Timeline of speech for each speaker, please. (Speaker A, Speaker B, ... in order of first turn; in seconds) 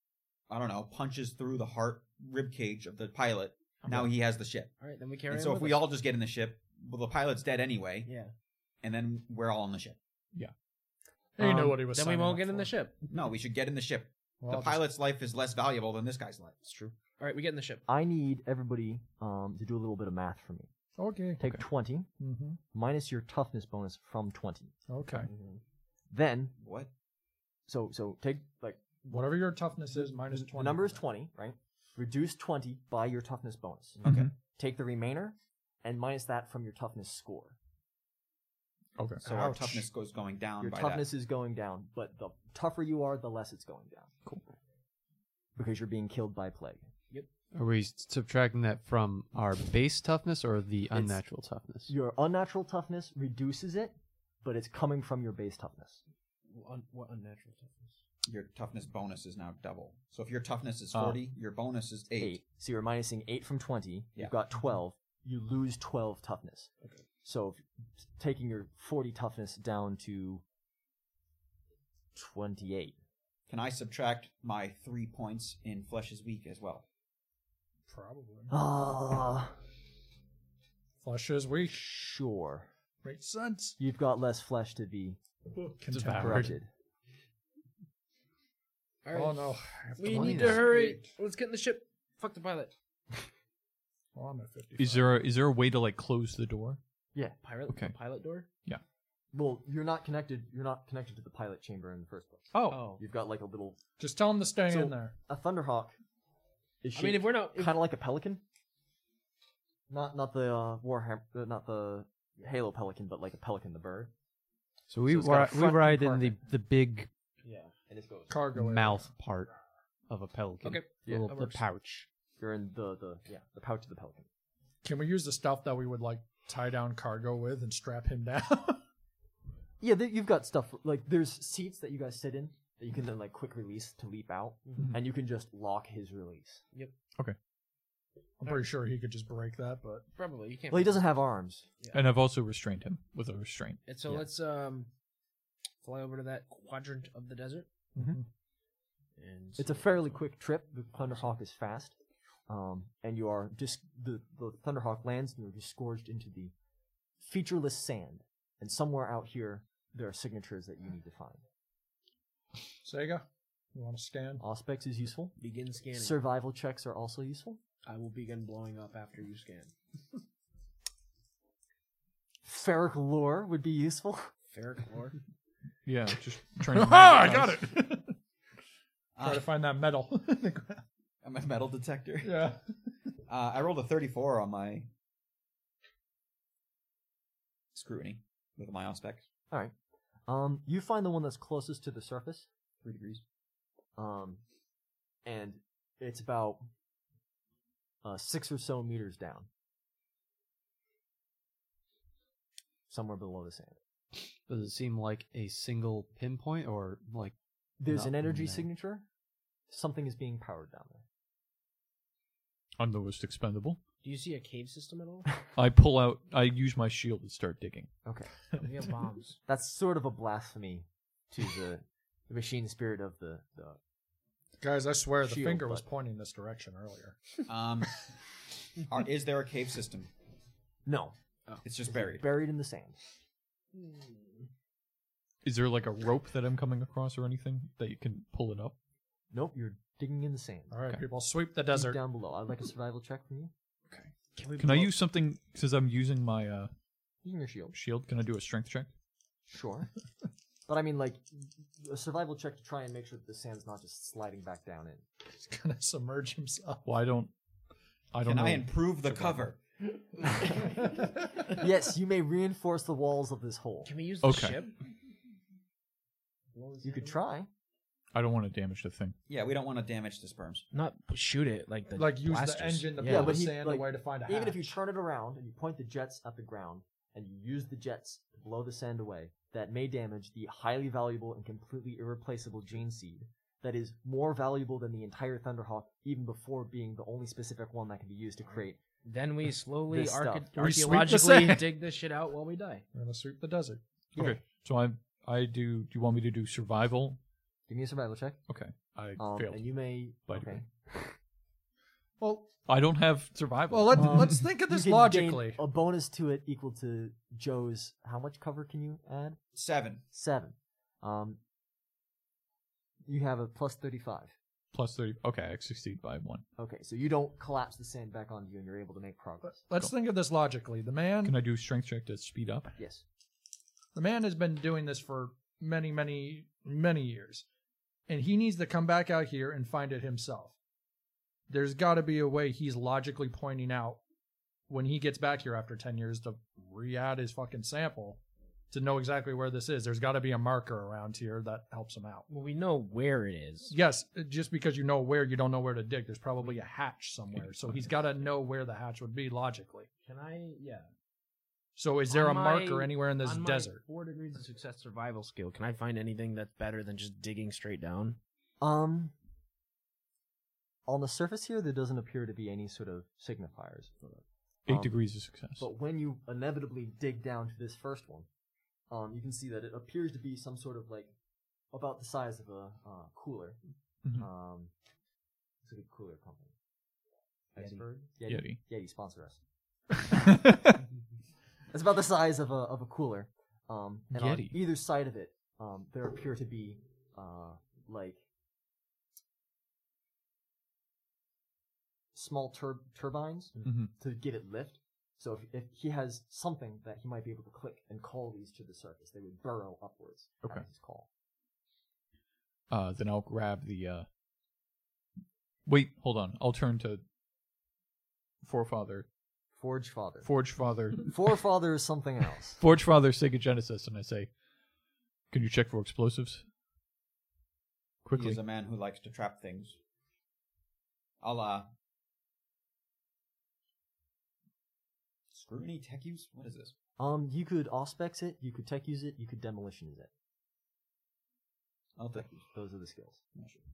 Speaker A: 0.5-4.7, 5.3-8.1, 8.8-10.0, 13.1-16.6, 26.6-26.9, 34.0-34.3, 39.2-41.1, 58.2-62.4, 73.5-76.8, 179.2-179.5, 181.2-182.6, 183.3-184.9, 187.7-189.2, 192.8-193.2, 227.4-228.1, 228.8-230.1, 231.6-232.3, 258.2-259.6, 269.3-270.6, 309.6-310.0, 418.1-419.8, 421.2-421.7, 425.3-426.7, 431.9-432.5, 433.3-433.6
Speaker B: 3.9-4.1, 11.4-12.7, 14.4-14.8, 21.0-21.4, 22.2-22.6, 24.9-25.3, 29.1-31.0, 77.9-78.5, 81.0-81.8, 83.0-83.8, 85.6-86.5, 89.1-91.1, 94.1-95.2, 104.0-105.1, 118.3-119.0, 124.8-128.8, 138.4-140.1, 147.9-148.2, 162.8-164.4, 176.6-178.2, 179.2-180.8, 182.2-182.6, 224.6-227.2, 240.7-242.0, 255.3-256.9, 271.9-274.6, 290.6-291.6, 292.9-293.8, 302.2-302.5, 303.7-305.6, 319.4-321.4, 323.9-327.4, 328.1-330.6, 331.5-334.0, 334.7-342.3, 343.7-349.9, 351.8-353.8
Speaker C: 4.8-5.8, 8.1-8.3, 11.9-12.9, 16.7-17.9, 56.5-58.0, 89.0-92.7, 97.4-98.5, 102.7-103.0, 106.9-107.8, 117.4-117.7, 120.6-121.6, 140.2-141.2, 141.8-142.1, 143.8-144.9, 145.8-147.7, 149.2-150.2, 165.4-166.2, 167.8-169.7, 174.5-175.2, 214.0-215.4, 218.6-219.4, 233.7-234.5, 244.4-244.9, 263.9-264.8, 266.5-267.2, 270.7-273.4, 289.0-292.9, 342.3-343.7, 350.1-350.9, 352.1-358.2, 377.6-377.9
Speaker D: 11.4-11.8, 17.9-20.7, 21.4-22.1, 22.7-24.8, 26.1-26.6, 27.7-37.5, 40.6-44.1, 45.5-46.8, 50.9-51.2, 51.9-56.0, 62.2-66.7, 67.2-70.4, 72.1-72.9, 78.5-79.6, 81.7-82.7, 83.8-85.2, 86.1-86.7, 99.3-103.8, 104.7-106.0, 106.8-108.4, 109.9-114.1, 115.1-116.4, 117.9-118.4, 121.0-121.3, 122.4-124.3, 129.8-136.6, 140.7-141.7, 149.6-151.9, 152.5-156.5, 157.2-161.4, 164.4-165.4, 165.9-167.6, 172.4-174.3, 190.3-192.5, 193.9-194.4, 195.2-196.7, 198.0-199.5, 202.9-203.8, 207.8-209.1, 209.7-211.0, 218.0-218.3, 219.4-223.8, 225.2-225.8, 230.9-231.1, 231.9-233.0, 239.3-240.7, 241.7-243.5, 247.2-247.8, 249.5-249.9, 250.7-255.0, 260.4-260.9, 261.4-263.9, 266.8-267.5, 273.1-288.8, 289.9-290.7, 297.7-298.4, 299.2-300.6, 303.9-309.4, 310.1-311.4, 313.1-314.3, 316.6-319.6, 322.8-323.0, 358.6-359.1, 360.9-363.9, 364.7-368.3, 368.9-371.1, 371.7-374.7, 375.6-376.5, 377.5-379.4, 381.7-388.2, 392.1-401.1, 409.6-410.3, 411.0-412.6, 427.0-430.1, 432.1-433.2
Speaker E: 34.0-34.3, 39.0-39.2, 60.9-61.2, 85.9-86.5, 94.8-96.8, 97.7-98.0, 102.5-102.9, 141.9-143.8, 175.8-177.7, 212.8-213.8, 215.6-218.0, 235.4-238.7, 243.9-246.7, 247.7-248.9, 256.8-257.3, 258.1-259.5, 264.2-264.6, 268.1-269.1, 290.6-291.1, 294.1-297.2, 298.5-299.7, 300.3-300.9, 302.6-304.4, 314.7-316.4, 321.2-322.7, 364.6-365.7, 378.2-378.6, 380.3-380.8, 384.1-384.6, 393.6-393.9, 402.7-404.1, 405.6-407.0, 408.4-409.1, 410.2-411.3, 412.6-414.3, 415.3-416.4, 418.0-418.4
Speaker F: 47.5-51.9, 90.1-90.7, 114.9-117.1, 118.5-119.5, 120.1-122.1, 204.5-207.3, 207.9-208.7